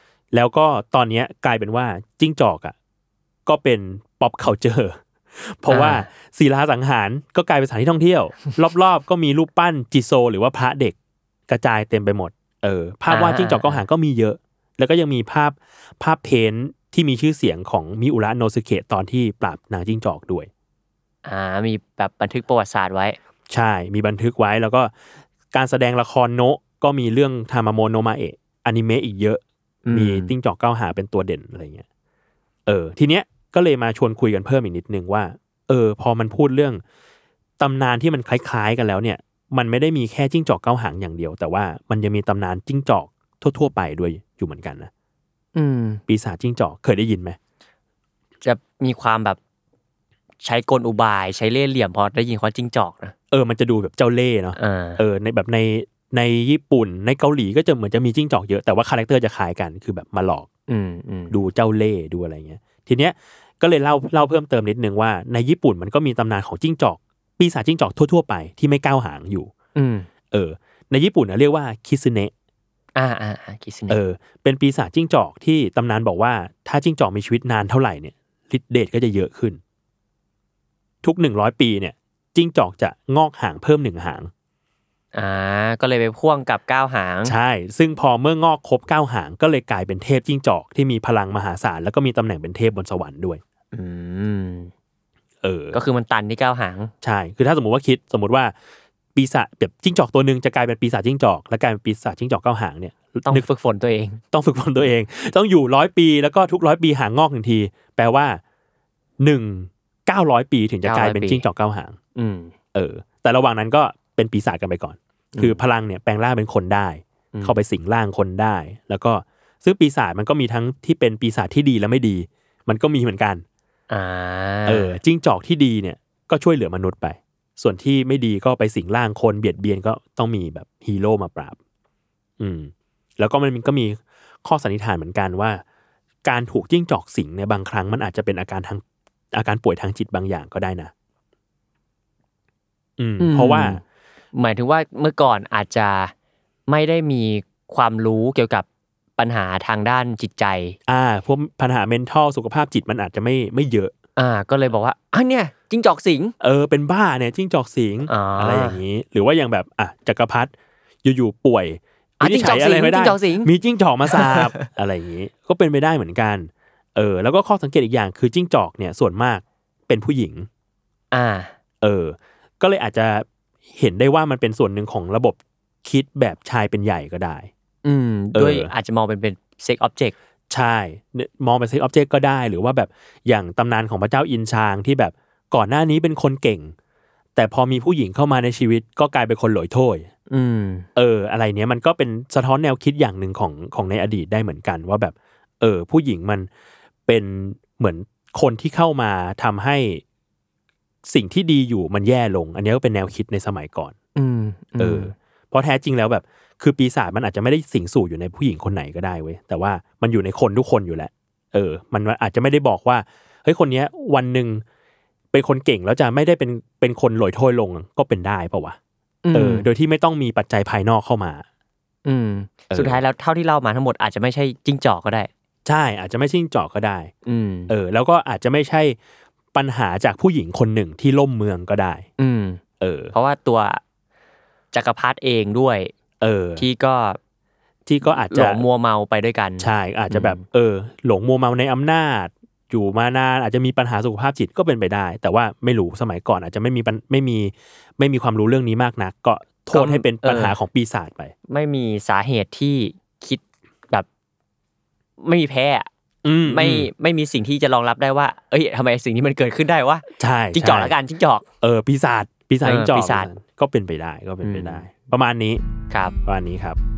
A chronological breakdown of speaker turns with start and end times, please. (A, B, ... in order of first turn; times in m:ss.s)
0:00.3-0:02.7 A
0:03.4-0:11.0 A
0:05.7-0:06.0 B
0:11.5-0:20.5 A
0:13.1-0:13.8 B
0:21.2-0:23.2 B
0:23.5-0:24.9 A
0:25.5-0:31.8 A
0:29.8-0:30.3 B
0:32.6-0:36.8 A
0:37.6-0:44.9 A
0:45.5-0:46.0 B
0:46.1-0:47.4 A
0:48.4-0:49.4 B
0:50.4-0:53.1 B
0:53.3-1:00.5 A
0:54.6-0:55.0 B
1:00.7-1:01.4 B
1:01.3-1:09.5 A
1:09.8-1:10.1 B
1:10.3-1:12.3 A
1:13.0-1:14.0 B
1:13.9-1:19.6 A
1:21.0-1:24.3 A
1:25.1-1:27.4 B
1:27.2-1:33.4 A
1:33.7-1:34.7 B
1:35.4-1:35.8 A
1:35.7-1:36.9 B
1:37.0-1:38.5 A
1:39.1-1:43.4 A
1:43.3-1:44.2 B
1:44.3-1:48.4 A
1:49.2-1:52.0 A
1:50.8-1:51.4 B
1:52.1-1:52.5 B
1:52.7-2:03.4 A
1:55.3-1:55.6 B
2:03.9-2:05.0 B
2:04.6-2:11.6 A
2:12.4-2:15.6 A
2:16.2-2:20.9 A
2:23.0-2:23.8 A
2:23.2-2:23.8 B
2:24.3-2:26.1 B
2:26.7-2:28.6 B
2:29.2-2:30.8 B
2:30.9-2:33.9 A
2:34.2-2:36.3 B
2:36.4-2:40.5 A
2:38.1-2:38.8 B
2:41.0-2:50.5 A
2:42.2-2:43.5 B
2:44.0-2:44.7 B
2:51.1-2:51.5 B
2:51.8-2:57.5 A
2:57.8-3:00.1 B
2:58.3-2:58.7 A
3:00.5-3:06.7 A
3:07.4-3:10.1 A
3:10.3-3:10.8 B
3:11.0-3:16.5 A
3:17.0-3:20.0 A
3:21.0-3:23.9 A
3:24.2-3:25.1 B
3:24.8-3:34.6 A
3:35.3-3:38.8 A
3:39.2-3:39.7 B
3:39.3-3:41.4 A
3:42.0-3:45.3 B
3:42.7-3:43.0 A
3:45.6-3:47.1 A
3:47.2-3:47.7 B
3:47.7-3:49.0 A
3:49.5-3:52.0 A
3:52.2-3:52.6 B
3:52.8-3:53.1 A
3:53.1-3:53.8 B
3:54.7-3:55.9 B
3:56.2-3:56.6 A
3:56.6-3:57.2 B
3:57.8-3:58.6 A
3:58.2-4:00.4 B
3:59.6-4:11.3 A
4:09.7-4:10.6 B
4:11.5-4:14.1 B
4:15.2-4:15.9 B
4:16.2-4:16.9 A
4:16.4-4:21.4 B
4:20.2-4:20.9 A
4:21.6-4:25.6 A
4:22.6-4:23.3 B
4:24.4-4:24.8 B
4:25.9-4:26.2 B
4:26.2-4:26.8 A